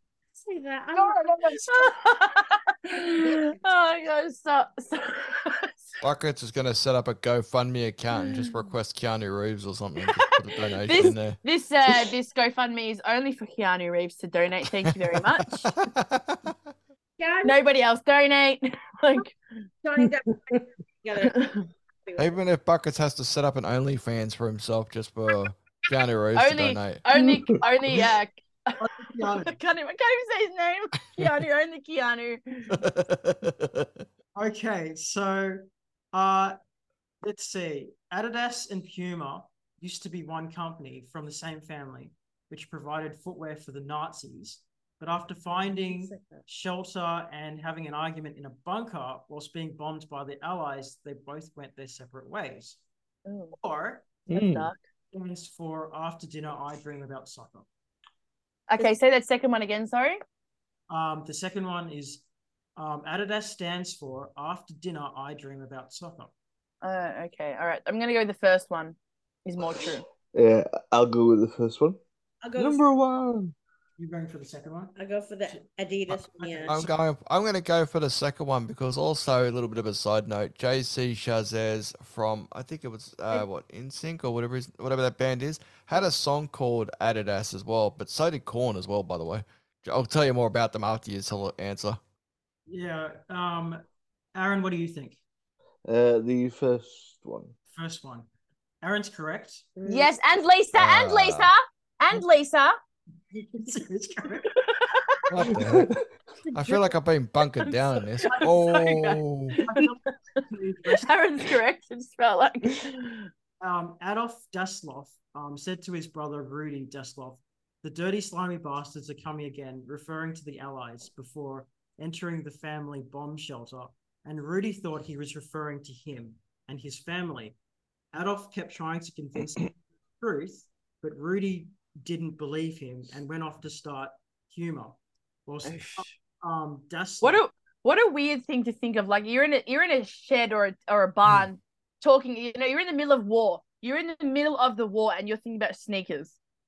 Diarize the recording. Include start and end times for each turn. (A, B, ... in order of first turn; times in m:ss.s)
0:00.4-0:01.9 A
0:00.9-0:05.9 B
0:06.0-0:11.4 C
0:08.2-0:08.5 B
0:10.8-0:15.6 B
0:14.9-0:16.6 C
0:17.2-0:17.6 A
0:17.4-0:19.4 B
0:19.8-0:22.4 A
0:21.2-0:21.6 B
0:22.2-0:27.0 C
0:26.3-0:32.8 B
0:28.8-0:29.6 D
0:32.7-0:34.0 C
0:34.3-0:36.6 D
0:37.2-0:52.8 D
0:45.5-0:46.4 A
0:53.2-0:53.6 B
0:53.6-0:54.1 D
0:54.3-0:54.7 E
0:54.3-0:54.8 B
0:55.1-0:57.6 D
0:58.7-1:00.2 B
1:00.9-1:02.2 D
1:02.8-1:06.3 D
1:06.8-1:10.0 B
1:10.3-1:12.0 E
1:12.4-1:12.8 A
1:12.6-1:13.5 E
1:14.0-1:14.9 D
1:14.9-1:16.8 A
1:15.5-1:16.9 D
1:16.7-1:32.0 C
1:32.7-1:33.8 D
1:34.3-1:35.2 D
1:35.8-1:37.5 E
1:37.7-1:38.3 D
1:38.8-1:39.7 D
1:39.8-1:40.1 A
1:39.8-1:42.8 B
1:40.8-1:41.5 C
1:43.3-1:44.5 D
1:44.5-1:45.2 B
1:45.3-1:45.9 C
1:45.5-1:46.0 E
1:46.5-1:49.6 C
1:47.6-1:53.3 B
1:49.6-1:51.1 D
1:53.6-2:07.6 D
2:08.1-2:17.4 D
2:15.6-2:16.0 B
2:17.2-2:26.4 B